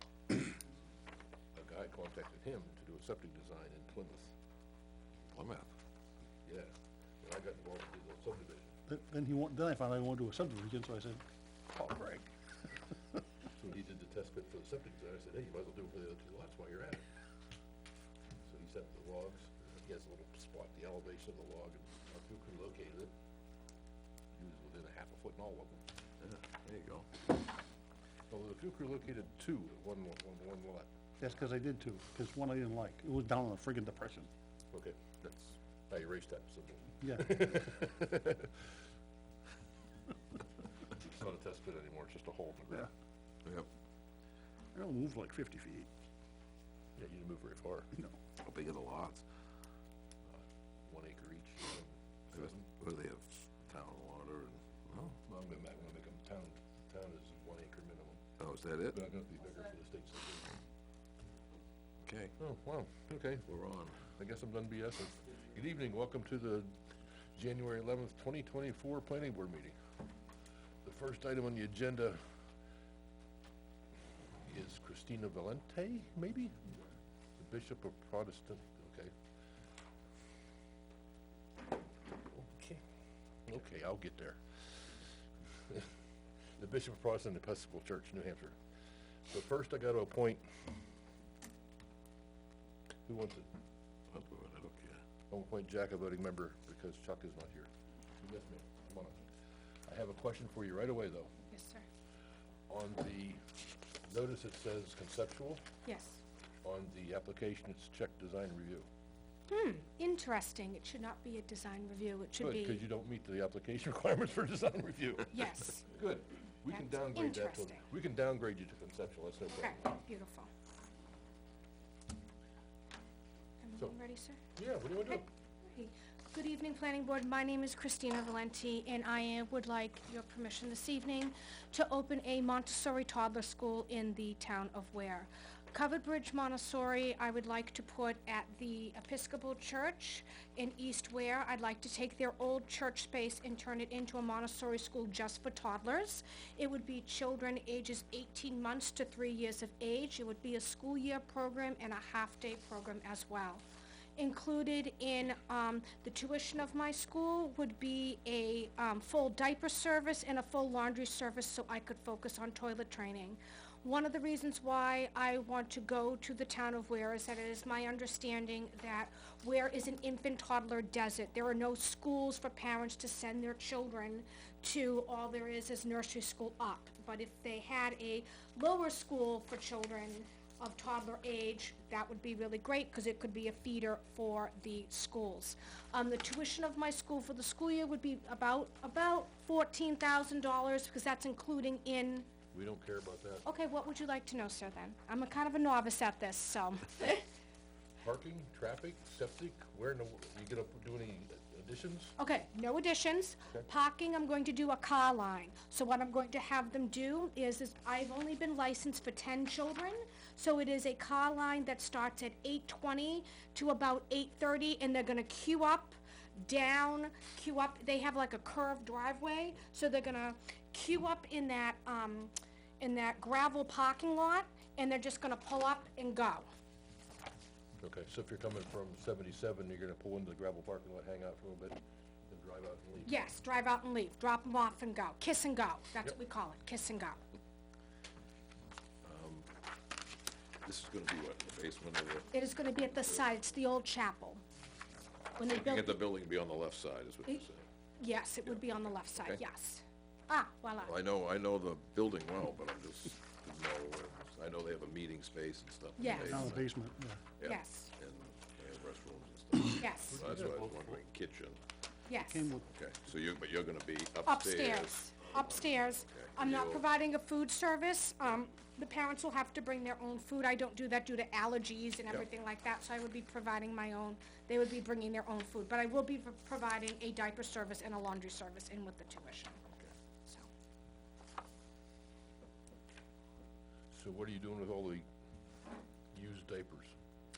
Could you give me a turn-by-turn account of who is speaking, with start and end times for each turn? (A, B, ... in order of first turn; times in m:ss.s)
0:01.5-0:04.3 A
0:05.3-0:05.7 B
0:06.4-0:08.7 A
0:08.9-0:12.3 C
0:13.6-0:17.0 A
0:18.4-0:23.1 A
0:24.4-0:25.8 A
0:26.2-0:27.2 B
0:28.3-0:30.9 A
0:31.2-0:34.3 C
0:34.7-0:38.6 A
0:37.0-0:37.4 C
0:40.9-0:42.9 A
0:44.7-0:45.9 C
0:47.0-0:47.9 A
0:48.4-0:49.2 B
0:50.3-0:52.7 A
0:52.3-0:55.1 B
0:55.0-0:58.2 A
0:58.4-0:59.0 B
0:58.9-1:00.6 A
1:02.0-1:02.3 B
1:02.4-1:03.5 A
1:03.5-1:04.0 B
1:04.0-1:06.7 A
1:07.3-1:09.8 A
1:10.8-1:12.2 A
1:14.4-1:16.7 A
1:17.4-1:19.1 A
1:22.3-1:22.8 A
1:23.5-1:24.4 A
1:26.6-1:28.6 A
1:29.3-1:30.6 A
1:33.0-1:33.5 A
1:34.1-1:35.0 B
1:35.3-1:39.2 A
1:39.9-1:41.3 A
1:41.5-1:41.8 D
1:42.7-1:43.4 A
1:44.0-1:45.6 A
1:45.8-1:46.2 D
1:46.6-1:48.9 A
1:49.5-1:52.8 D
1:52.4-1:59.9 A
1:55.3-1:55.9 D
1:56.7-1:57.8 D
1:59.5-2:00.5 D
2:03.6-2:04.4 D
2:04.6-2:05.2 A
2:05.1-2:33.6 D
2:34.2-3:12.3 D
3:12.5-3:13.4 A
3:13.4-3:17.2 D
3:18.0-3:22.2 A
3:22.2-3:46.5 D
3:47.8-3:53.2 A
3:53.0-3:57.2 D
3:59.0-3:59.5 B
4:00.6-4:02.3 B
4:02.3-4:04.4 D
4:05.4-4:06.0 D
4:05.4-4:07.6 B
4:08.0-4:10.9 D
4:10.8-4:16.7 B
4:16.0-4:16.5 D
4:16.2-4:17.2 C
4:17.4-4:21.6 B
4:17.4-4:17.9 D
4:19.8-4:20.2 D
4:20.1-4:20.7 A
4:22.1-4:22.5 D
4:22.3-4:22.6 C
4:22.7-4:26.9 B
4:24.2-4:39.6 D
4:43.9-4:45.0 A
4:46.1-4:46.9 A